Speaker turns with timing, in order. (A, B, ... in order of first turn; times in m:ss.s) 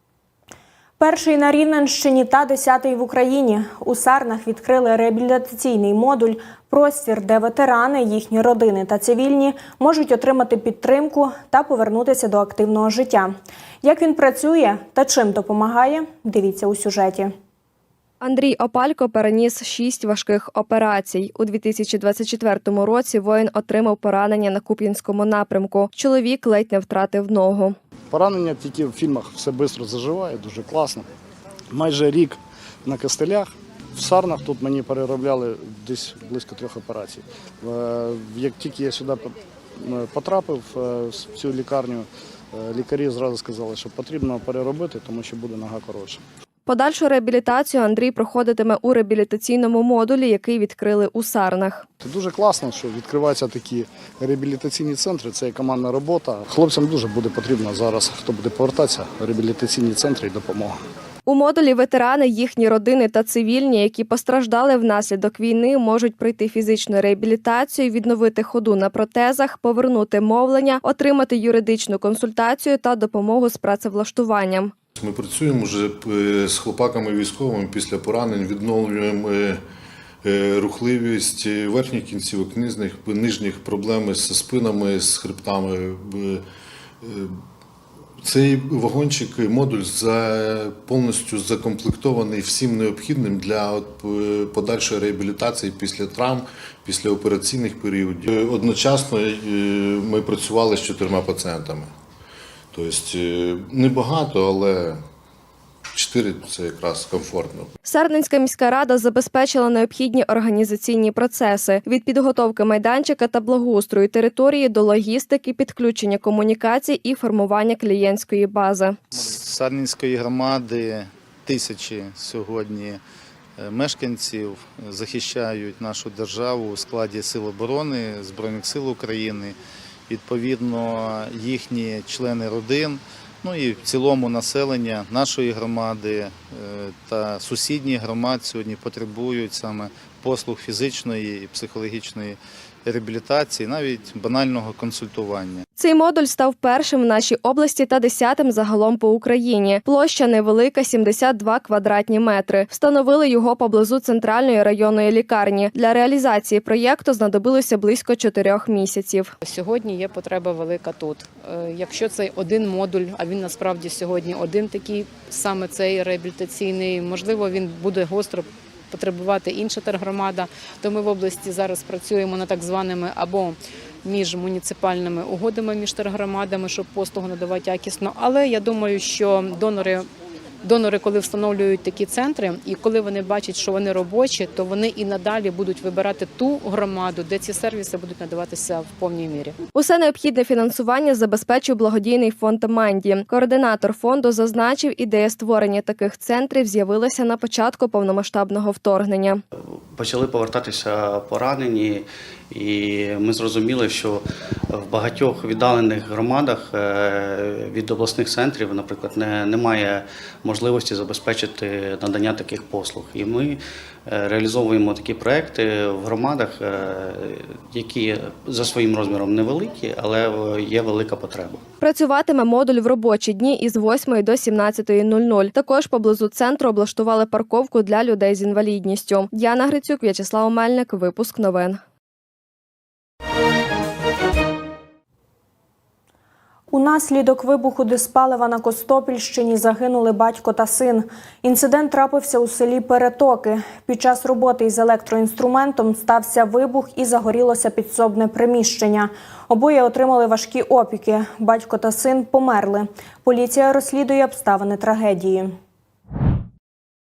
0:01.0-0:13.3 A
0:13.8-0:17.3 A
0:18.2-0:27.8 B
0:28.1-0:31.1 C
0:31.7-0:46.2 C
0:46.6-0:51.8 B
0:52.0-1:00.8 C
1:01.2-1:14.7 B
1:15.0-1:19.6 D
1:20.2-1:26.4 D
1:27.0-1:27.3 D
1:28.2-1:41.9 D
1:42.7-1:45.0 D
1:45.9-1:47.7 D
1:47.8-1:59.0 B
1:59.1-2:03.0 E
2:03.6-2:09.6 E
2:10.1-2:25.6 E
2:25.8-2:39.3 B
2:39.4-3:00.0 F
3:00.6-3:09.5 F
3:09.7-3:19.4 B
3:20.0-3:33.6 G
3:34.1-3:41.6 G
3:41.8-3:51.8 B
3:56.7-4:15.5 A